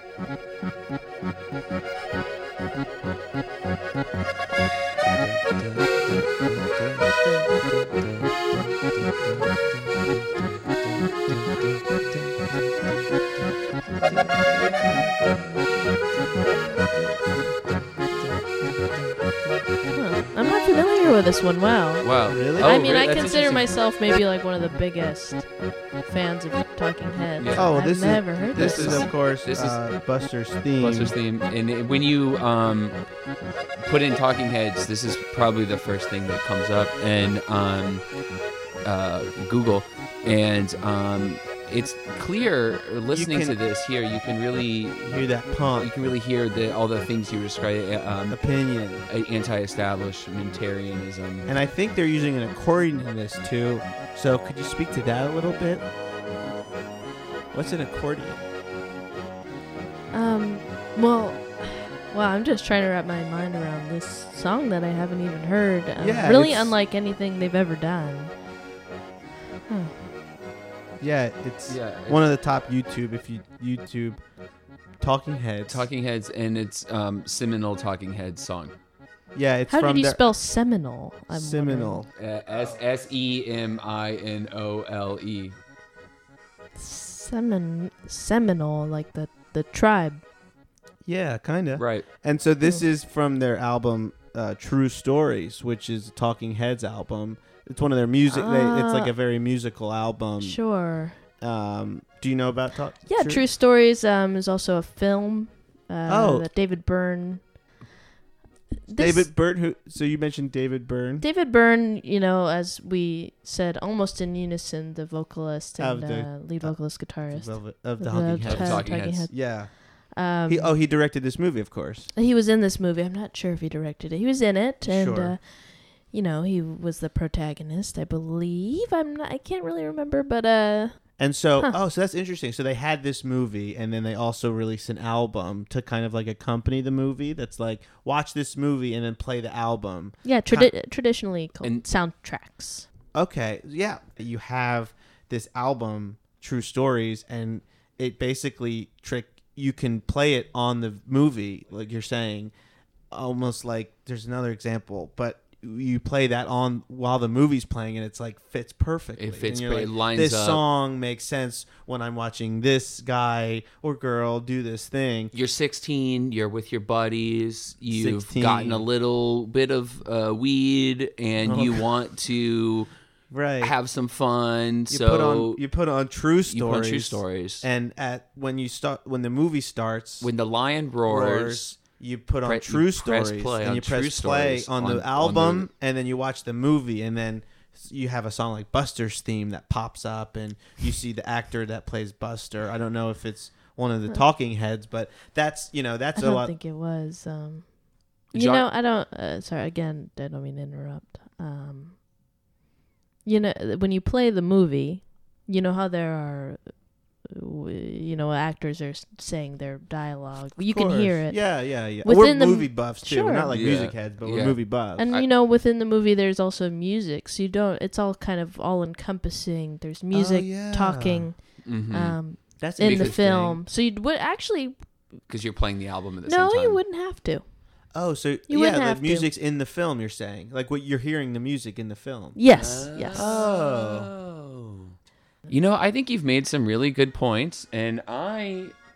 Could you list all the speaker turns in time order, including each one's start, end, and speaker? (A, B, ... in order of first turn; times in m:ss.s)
0:05.0-0:13.0 A
0:14.0-0:15.4 A
0:16.9-0:19.6 A
0:19.9-0:29.1 B
0:22.0-0:23.7 A
0:22.3-0:22.8 C
0:27.4-0:27.7 A
0:27.5-0:31.2 C
0:28.5-0:29.8 A
0:30.8-0:33.0 A
0:33.8-0:38.1 A
0:38.8-0:45.2 A
0:43.1-0:43.6 C
0:45.0-0:45.9 C
0:45.8-0:48.4 A
0:48.3-0:49.1 C
0:49.1-0:51.5 A
0:51.5-0:55.9 C
0:57.5-0:58.4 C
1:00.1-1:08.3 B
1:06.0-1:06.7 C
1:09.7-1:10.0 B
1:11.0-1:14.2 C
1:11.7-1:12.3 A
1:15.0-1:15.9 C
1:15.7-1:18.8 A
1:19.4-1:20.2 C
1:19.7-1:22.0 B
1:21.3-1:22.8 C
1:22.2-1:25.6 A
1:26.8-1:30.2 B
1:31.1-1:40.6 C
1:31.8-1:32.1 A
1:38.3-1:39.1 B
1:40.4-1:41.2 B
1:41.4-1:43.4 C
1:43.1-1:47.4 B
1:46.1-1:46.5 C
1:48.9-1:49.3 B
1:49.0-1:51.2 C
1:51.2-2:00.7 B
1:55.8-2:02.1 C
1:58.4-1:59.3 A
2:02.2-2:11.0 B
2:04.8-2:05.4 C
2:11.2-2:20.7 C
2:20.2-2:22.9 B
2:23.2-2:32.5 C
2:33.1-2:45.3 C
2:39.2-2:40.6 A
2:45.3-2:52.9 A
2:47.9-2:48.9 C
2:51.4-2:51.8 C
2:53.3-2:53.7 C
2:53.6-2:55.6 A
2:54.9-3:00.3 C
2:56.5-2:57.6 A
3:00.2-3:01.7 A
3:01.0-3:16.5 C
3:02.4-3:05.7 A
3:16.2-3:17.7 B
3:18.3-3:22.0 B
3:18.3-3:18.7 A
3:23.2-3:26.7 B
3:27.3-3:31.5 B
3:30.7-3:35.1 C
3:32.0-3:33.5 B
3:33.5-3:35.3 A
3:35.0-3:44.8 B
3:40.1-3:41.3 C
3:41.6-3:42.2 A
3:42.6-3:43.6 C
3:42.8-3:43.2 A
3:45.3-3:46.8 A
3:46.3-3:47.4 B
3:47.9-3:52.4 C
3:48.5-3:49.3 B
3:52.4-3:53.3 B
3:52.5-3:55.0 A
3:53.1-3:54.1 C
3:55.5-3:58.7 A